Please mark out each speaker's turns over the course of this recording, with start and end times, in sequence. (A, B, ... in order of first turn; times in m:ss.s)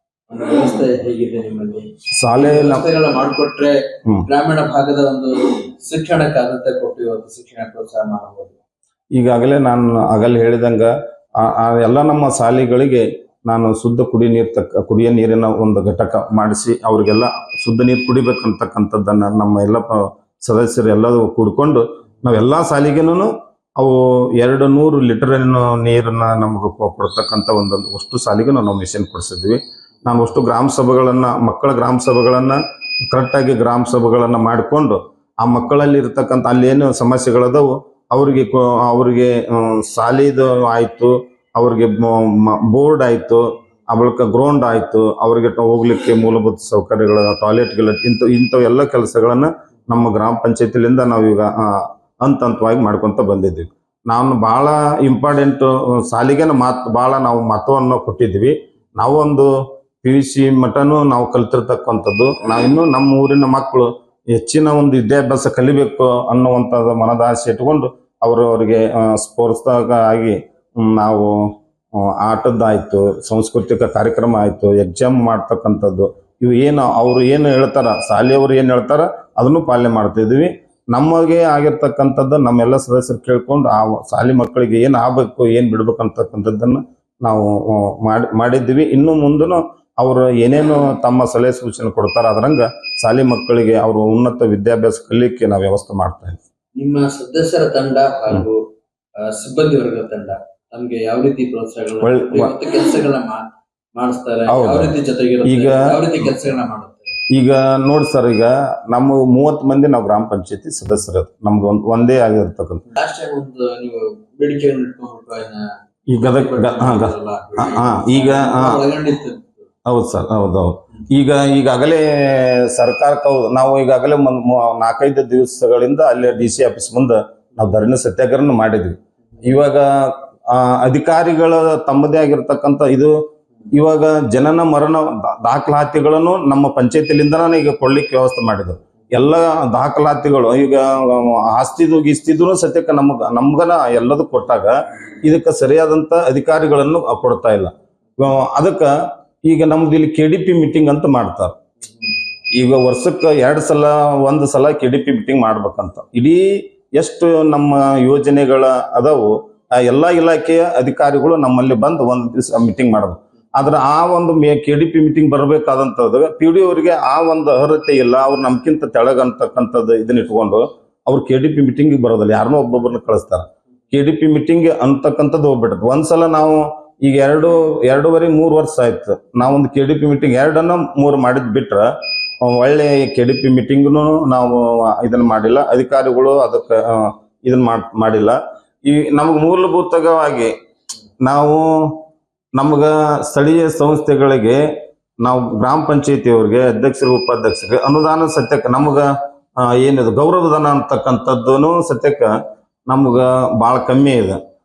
0:00.3-0:08.6 A
0:02.2-0:02.8 B
0:09.2-0:59.5 B
1:00.0-1:36.4 B
1:36.8-1:38.6 A
1:39.2-1:43.4 A
1:42.0-1:42.5 B
1:44.0-1:47.1 A
1:44.5-1:44.9 B
1:45.4-1:45.8 B
1:47.3-1:52.8 B
1:52.9-1:55.6 A
1:56.1-1:58.8 B
1:56.2-1:59.7 A
1:59.8-2:13.1 B
2:13.7-2:28.9 B
2:29.4-2:31.5 B
2:32.6-3:01.8 B
3:02.4-3:10.5 B
3:11.2-3:12.0 B
3:12.6-3:14.6 B
3:15.2-3:22.3 B
3:22.9-3:24.4 B